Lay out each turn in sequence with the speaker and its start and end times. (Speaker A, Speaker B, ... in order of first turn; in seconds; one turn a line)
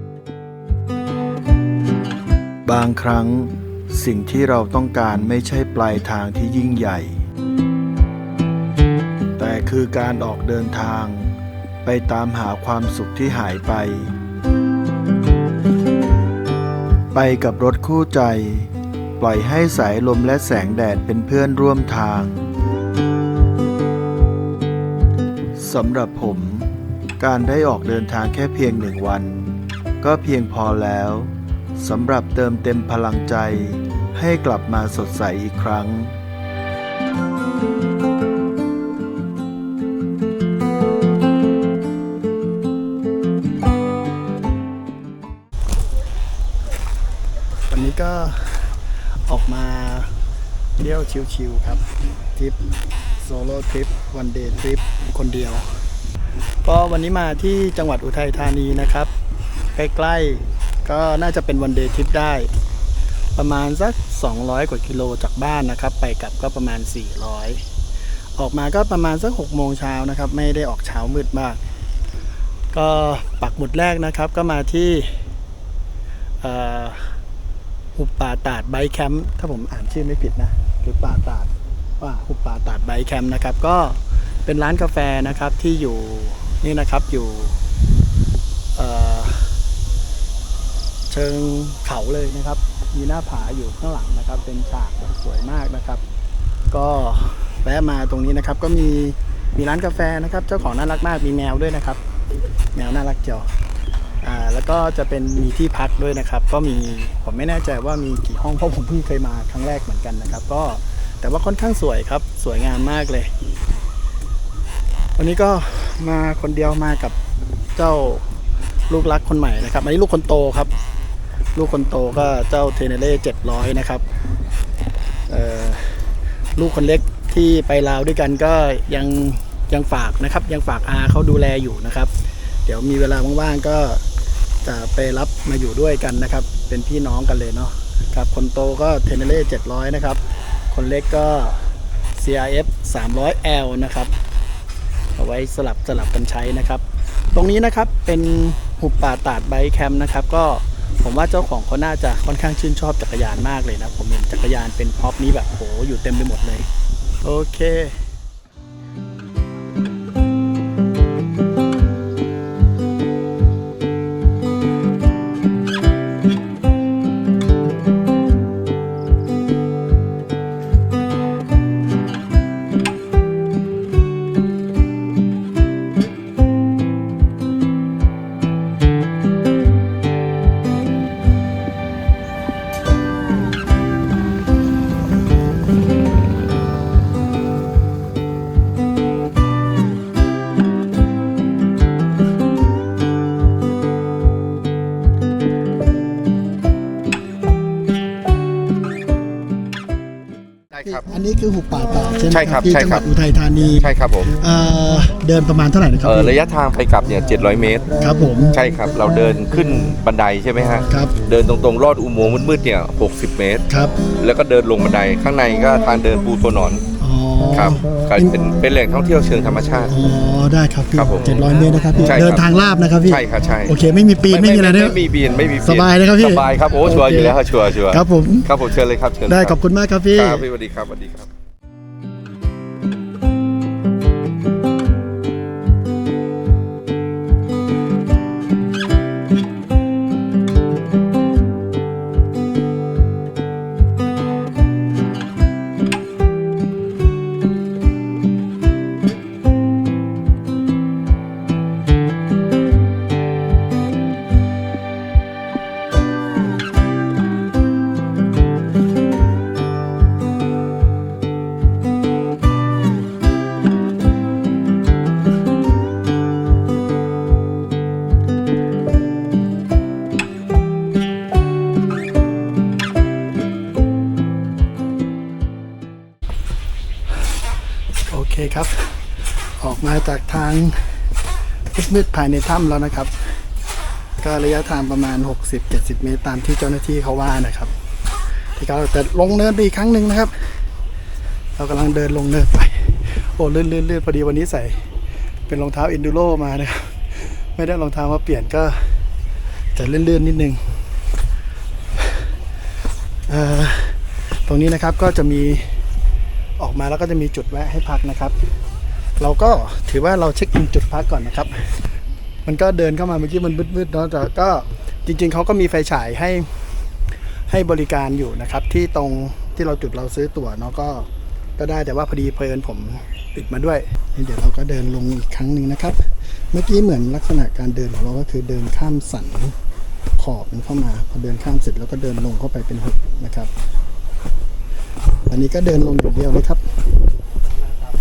Speaker A: 2.6-7.2
Speaker A: 9.4-11.3
Speaker A: 11.8-14.1
Speaker A: 17.1-22.4
Speaker A: 25.5-36.2
Speaker B: 47.7-50.1
Speaker B: 50.8-51.8
Speaker B: 53.2-55.6
Speaker B: 56.6-59.1
Speaker B: 59.7-62.5
Speaker B: 63.3-67.6
Speaker B: 68.3-71.6
Speaker B: 72.7-75.2
Speaker B: 76.4-77.2
Speaker B: 77.9-87.6
Speaker B: 88.7-89.6
Speaker B: 91.1-96.0
Speaker B: 96.7-102.0
Speaker B: 102.7-103.5
Speaker B: 104.2-113.3
Speaker B: 115.1-117.2
Speaker B: 117.7-118.2
Speaker B: 118.9-120.7
Speaker B: 121.5-124.0
Speaker B: 125.3-132.1
Speaker B: 132.6-134.0
Speaker B: 134.6-144.1
Speaker B: 145.1-156.7
Speaker B: 157.2-158.0
Speaker C: 200.7-201.0
Speaker B: 200.8-206.4
Speaker C: 202.3-203.1
Speaker C: 203.8-204.3
Speaker C: 206.0-207.9
Speaker B: 208.0-208.6
Speaker C: 208.5-213.7
Speaker B: 210.9-211.2
Speaker B: 213.7-214.0
Speaker C: 214.2-216.8
Speaker B: 217.0-218.4
Speaker C: 217.5-219.9
Speaker B: 219.8-225.0
Speaker C: 220.9-222.4
Speaker C: 223.1-223.7
Speaker C: 224.3-229.6
Speaker B: 225.6-228.5
Speaker B: 229.3-230.5
Speaker C: 230.1-231.3
Speaker B: 278.1-281.1
Speaker B: 281.7-283.4
Speaker B: 284.2-287.7
Speaker B: 288.5-290.6
Speaker B: 291.6-294.9
Speaker B: 295.5-299.0
Speaker B: 299.7-300.8
Speaker B: 303.3-305.8
Speaker B: 306.6-308.4
Speaker B: 309.2-311.9
Speaker B: 312.4-316.6
Speaker B: 317.5-329.6
Speaker B: 330.2-333.5
Speaker B: 335.2-336.7